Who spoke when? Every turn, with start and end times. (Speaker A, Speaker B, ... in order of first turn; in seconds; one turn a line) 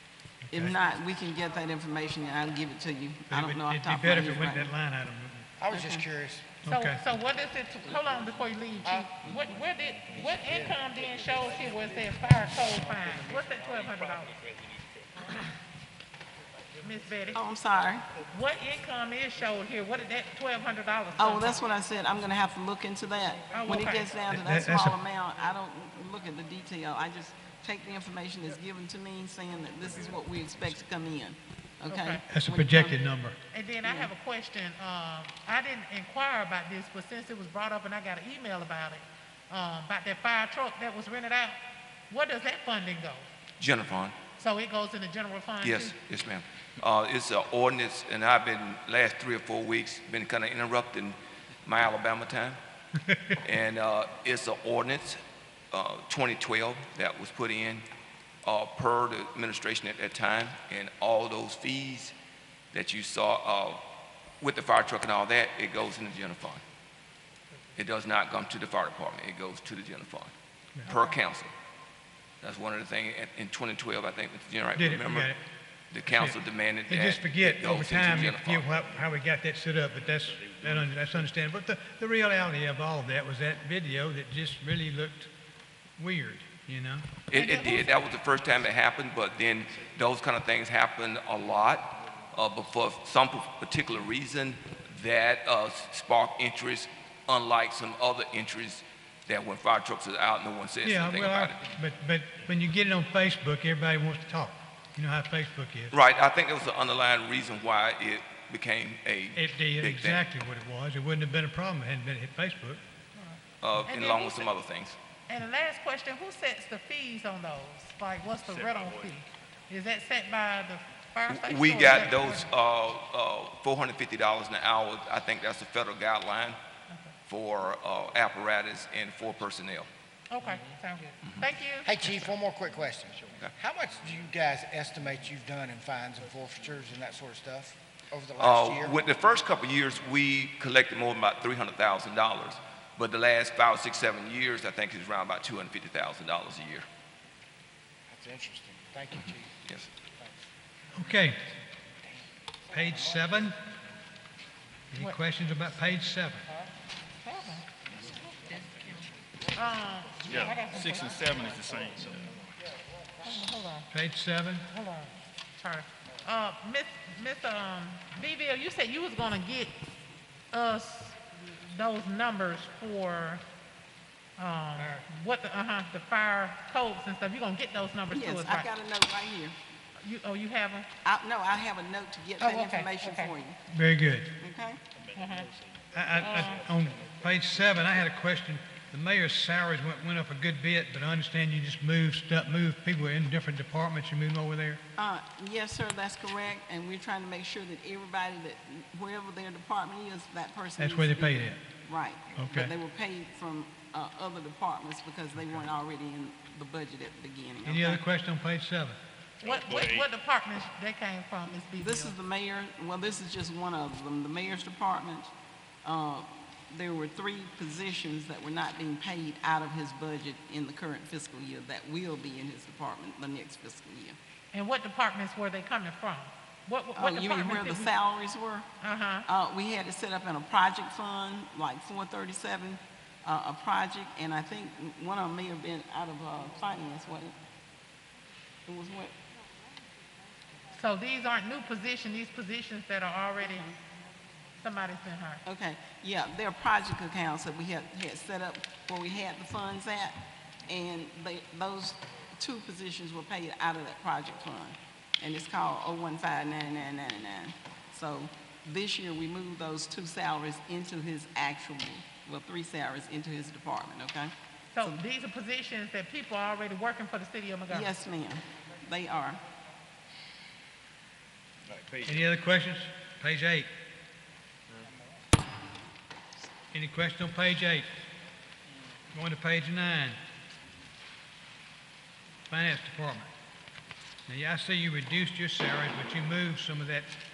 Speaker A: 0.5-0.7
Speaker B: 0.5-4.7
Speaker A: 3.3-5.5
Speaker C: 5.6-6.5
Speaker B: 5.7-6.0
Speaker A: 6.6-7.0
Speaker D: 6.7-14.4
Speaker D: 15.2-15.5
Speaker D: 16.8-17.4
Speaker B: 17.3-18.1
Speaker D: 18.3-21.6
Speaker B: 21.2-33.0
Speaker D: 23.5-24.1
Speaker A: 24.3-25.0
Speaker D: 31.9-32.2
Speaker A: 32.3-33.4
Speaker D: 33.5-41.6
Speaker B: 33.8-34.1
Speaker D: 42.1-43.3
Speaker E: 43.6-44.3
Speaker D: 44.3-45.9
Speaker E: 45.6-52.6
Speaker A: 53.0-53.4
Speaker E: 53.4-55.2
Speaker E: 55.7-57.8
Speaker E: 58.4-62.1
Speaker E: 62.7-63.8
Speaker E: 64.4-66.6
Speaker E: 67.8-70.3
Speaker E: 70.9-71.5
Speaker D: 70.9-71.1
Speaker E: 72.4-75.3
Speaker A: 74.8-75.4
Speaker E: 75.9-78.7
Speaker A: 76.1-76.4
Speaker A: 76.9-85.3
Speaker A: 86.0-87.1
Speaker E: 87.3-101.7
Speaker D: 87.3-88.0
Speaker A: 100.8-105.9
Speaker E: 105.9-110.2
Speaker A: 109.3-112.8
Speaker D: 113.2-114.5
Speaker E: 113.6-115.0
Speaker D: 115.3-122.5
Speaker E: 121.3-126.6
Speaker E: 127.3-129.9
Speaker D: 130.3-131.9
Speaker C: 131.8-139.0
Speaker E: 138.4-146.8
Speaker C: 148.1-150.4
Speaker A: 150.9-151.4
Speaker A: 152.7-153.6
Speaker C: 152.9-153.1
Speaker A: 154.9-156.5
Speaker D: 157.2-157.7
Speaker D: 159.5-161.4
Speaker F: 160.3-162.3
Speaker D: 163.2-163.9
Speaker A: 163.9-164.7
Speaker D: 164.7-169.7
Speaker D: 170.5-173.4
Speaker D: 174.4-178.7
Speaker B: 178.1-179.6
Speaker D: 180.0-180.9
Speaker B: 181.0-183.6
Speaker D: 182.4-183.3
Speaker A: 183.7-184.3
Speaker B: 184.4-184.8
Speaker D: 185.2-185.5
Speaker A: 185.9-194.8
Speaker D: 186.2-186.6
Speaker B: 194.9-208.0
Speaker A: 200.8-201.6
Speaker A: 202.3-202.7
Speaker A: 207.6-209.0
Speaker D: 209.4-212.1
Speaker F: 209.4-210.0
Speaker B: 211.8-215.3
Speaker B: 215.8-224.2
Speaker D: 224.5-227.9
Speaker B: 226.9-228.7
Speaker D: 228.8-229.2
Speaker B: 229.2-237.3
Speaker B: 238.7-239.1
Speaker D: 240.7-243.7
Speaker B: 243.4-243.7
Speaker D: 244.6-245.4
Speaker B: 245.4-265.0
Speaker D: 264.7-267.9
Speaker B: 267.7-269.4
Speaker F: 271.7-272.1
Speaker A: 272.0-273.7
Speaker A: 276.7-277.9
Speaker A: 279.1-280.2
Speaker A: 282.5-283.3
Speaker A: 284.3-287.1